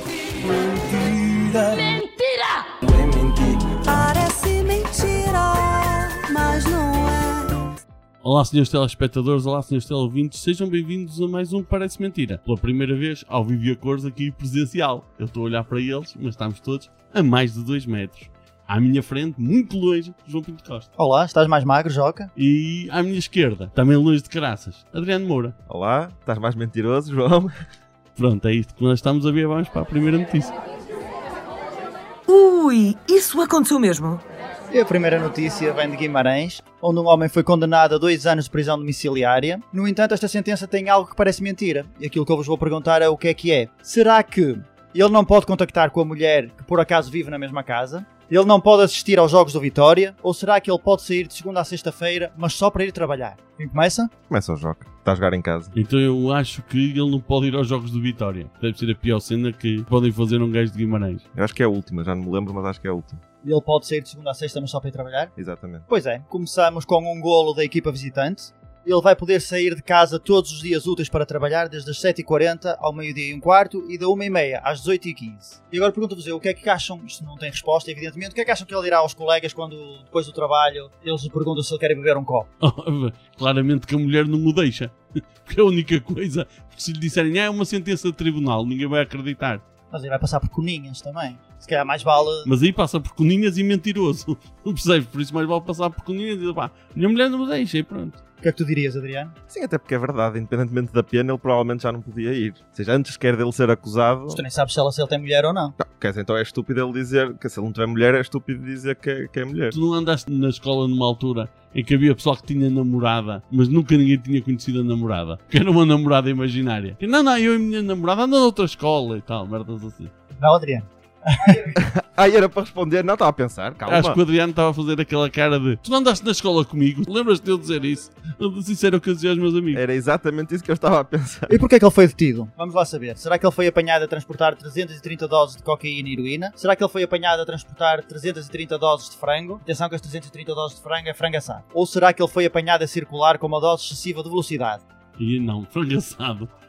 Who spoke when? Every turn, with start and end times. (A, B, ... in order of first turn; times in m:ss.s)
0:00.5-0:02.0 A
0:02.9-0:07.7 A
0:08.2-0:20.9 B
0:21.0-0:22.3 C
0:22.4-0:25.6 B
0:25.7-0:27.5 D
0:28.2-0:30.5 B
0:32.3-0:34.2 E
0:34.7-0:54.1 C
0:54.3-0:55.7 D
0:55.7-1:01.2 B
1:01.3-1:03.2 D
1:03.4-1:05.3 C
1:05.4-1:05.9 D
1:05.9-1:22.5 C
1:22.6-1:29.6 B
1:29.9-1:32.5 C
1:32.4-1:38.2 B
1:38.4-1:39.3 C
1:39.5-1:44.4 D
1:44.3-1:45.8 C
1:45.8-1:49.8 D
1:49.7-2:00.1 B
2:00.4-2:01.7 C
2:01.8-2:04.2 D
2:03.8-2:09.8 B
2:09.7-2:11.6 D
2:11.5-2:24.8 C
2:25.2-2:26.5 B